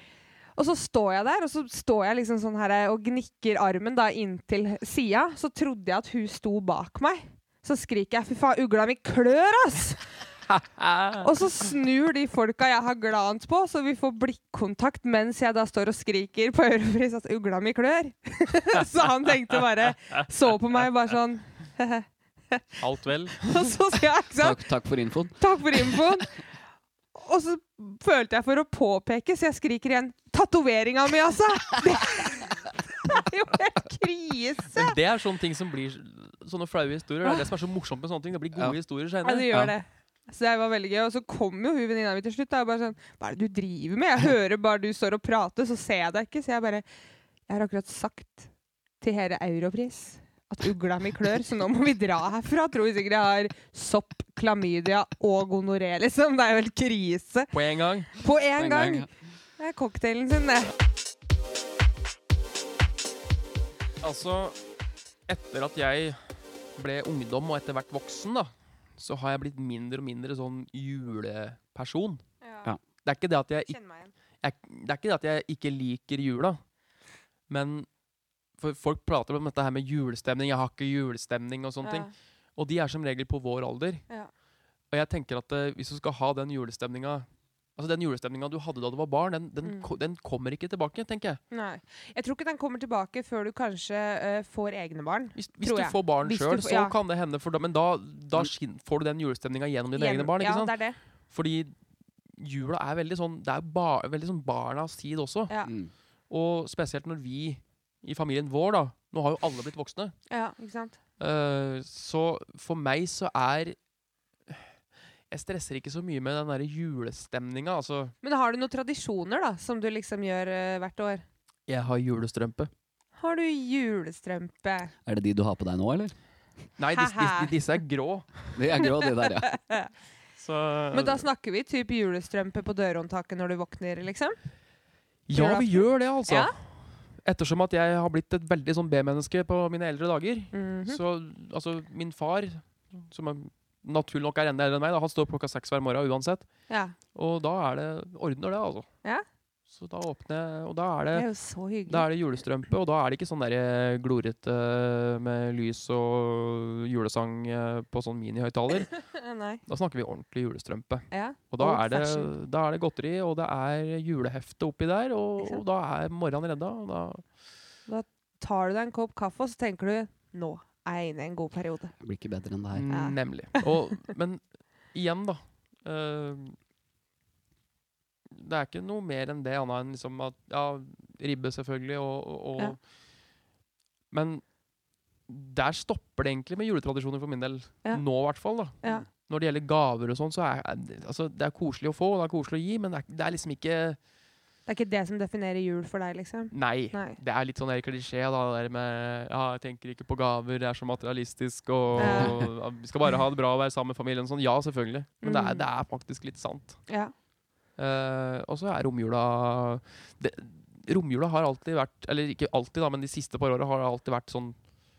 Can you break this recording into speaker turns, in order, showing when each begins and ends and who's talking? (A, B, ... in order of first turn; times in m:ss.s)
0:00.6-0:10.1 A
0:10.6-0:11.3 B
0:11.2-0:22.8 A
0:22.8-0:23.5 B
0:23.4-0:24.6 A
0:24.4-0:25.4 C
0:25.4-0:26.4 A
0:27.2-0:35.0 A
0:34.7-0:39.6 B
0:39.2-0:46.8 A
0:47.5-0:48.5 A
0:49.0-0:57.5 A
0:57.5-0:58.1 B
0:58.2-0:59.1 A
0:58.6-0:59.1 C
0:59.6-1:00.7 A
1:04.0-1:04.6 B
1:05.3-1:06.2 B
1:06.8-1:12.2 B
1:12.4-1:12.7 A
1:13.0-1:13.8 B
1:13.7-1:14.1 A
1:14.4-1:16.6 B
1:17.5-1:17.9 B
1:18.6-1:24.0 B
1:21.8-1:22.1 A
1:24.9-1:31.4 B
1:29.6-1:29.9 A
1:31.5-1:37.0 A
1:35.4-1:40.8 B
1:40.0-1:41.0 A
1:41.3-1:41.7 B
1:42.4-1:45.5 B
1:45.7-1:45.9 C
1:46.3-1:50.1 B
1:50.3-1:51.0 A
1:51.2-1:53.8 B
1:55.3-1:58.1 B
1:58.2-2:01.2 A
2:01.7-2:02.7 B
2:03.2-2:04.9 A
2:05.1-2:06.1 C
2:06.8-2:08.3 B
2:06.9-2:07.5 A
2:08.6-2:09.5 C
2:08.8-2:09.9 A
2:10.4-2:11.2 B
2:10.9-2:14.4 A
2:15.3-2:26.5 B
2:15.3-2:16.5 A
2:20.5-2:21.0 A
2:26.7-2:27.0 A
2:27.1-2:28.9 B
2:29.7-2:31.3 B
2:31.1-2:32.1 A
2:31.9-2:39.0 B
2:39.1-2:39.6 A
2:39.7-2:47.2 B
2:41.1-2:42.3 A
2:47.9-2:51.9 A
2:52.0-2:52.9 C
2:52.7-2:56.6 B
2:52.9-2:53.6 A
2:58.3-3:02.8 B
3:04.1-3:04.4 B
3:05.3-3:14.0 B
3:14.7-3:17.2 A
3:16.5-3:26.8 B
3:22.0-3:22.4 A
3:25.2-3:25.7 A
3:27.8-3:34.6 B